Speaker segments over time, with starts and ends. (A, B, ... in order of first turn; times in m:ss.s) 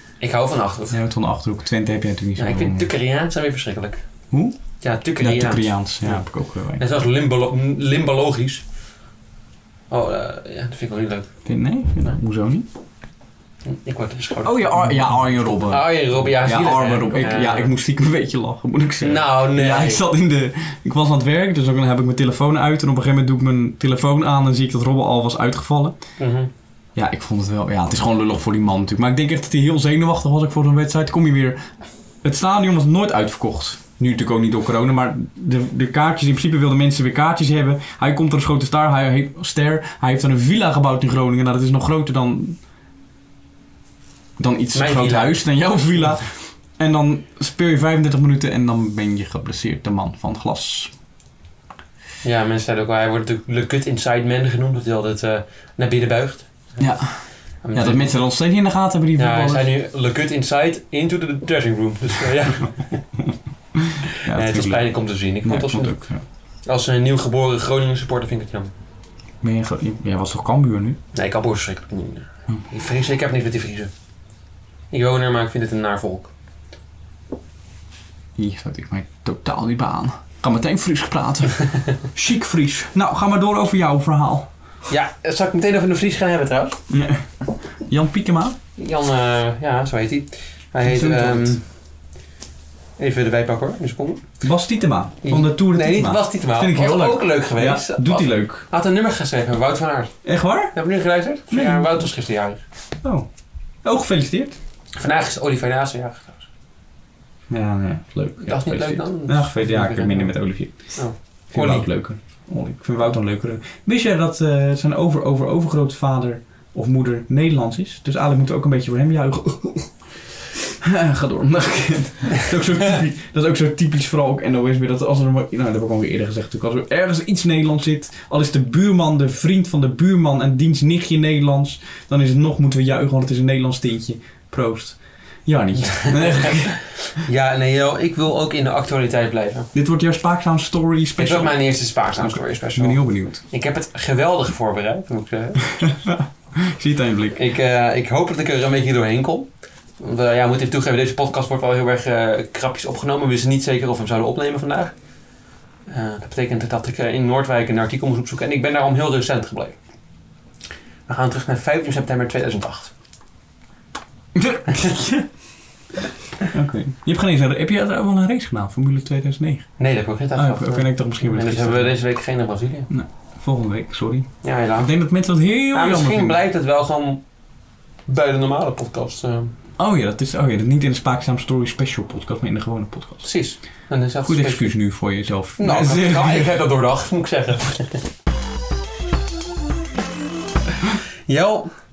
0:00.2-0:01.0 A
0:00.9-0:02.9 B
0:02.4-0:04.0 A
0:04.3-0:04.6 B
0:04.8-0:06.2 A
0:05.2-0:06.8 B
0:06.8-0:08.6 A
0:09.9-0:11.3 A
0:11.5-0:12.7 B
0:13.7-0:14.9 A
0:14.4-0:26.0 B
0:15.7-0:17.7 A
0:19.0-0:20.0 A
0:26.2-0:26.5 A
0:27.0-0:31.6 B
0:32.2-0:42.6 B
0:44.4-0:50.9 B
0:44.7-0:45.4 A
0:52.2-0:56.8 A
0:56.8-0:57.1 B
0:57.6-0:58.2 A
0:57.7-0:59.7 B
0:59.2-1:02.8 A
1:03.7-1:04.9 B
1:04.0-1:06.0 A
1:05.4-1:06.2 B
1:06.7-1:08.7 A
1:09.4-1:11.0 B
1:11.1-1:13.9 A
1:14.9-1:16.3 A
1:18.4-1:24.5 B
1:24.9-1:26.8 A
1:26.9-1:28.6 B
1:28.8-1:31.6 A
1:30.8-1:31.6 B
1:33.0-1:34.2 A
1:34.4-1:38.7 B
1:35.2-1:40.2 A
1:40.2-1:40.7 B
1:40.7-1:42.6 A
1:41.5-1:42.1 B
1:43.8-1:44.6 B
1:45.0-1:46.5 A
1:47.5-1:50.9 B
1:48.4-1:50.4 A
1:51.0-1:51.9 A
1:51.5-2:00.0 B
2:00.6-2:16.8 B
2:15.8-2:19.7 A
2:19.7-2:21.6 B
2:21.2-2:25.9 A
2:22.2-2:23.4 B
2:25.8-2:27.4 B
2:27.4-2:29.5 A
2:30.0-2:34.9 A
2:35.9-2:39.8 A
2:41.1-2:42.9 A
2:44.4-2:45.3 B
2:44.7-2:45.0 A
2:46.5-2:49.7 B
2:49.8-2:52.9 A
2:50.4-2:52.0 B
2:52.9-2:56.4 B
2:54.4-2:54.9 A
2:55.7-2:57.2 A
2:58.1-2:59.5 A
2:59.8-3:03.2 B
3:03.2-3:04.7 A
3:04.2-3:06.6 B
3:05.6-3:08.0 A
3:11.3-3:11.7 A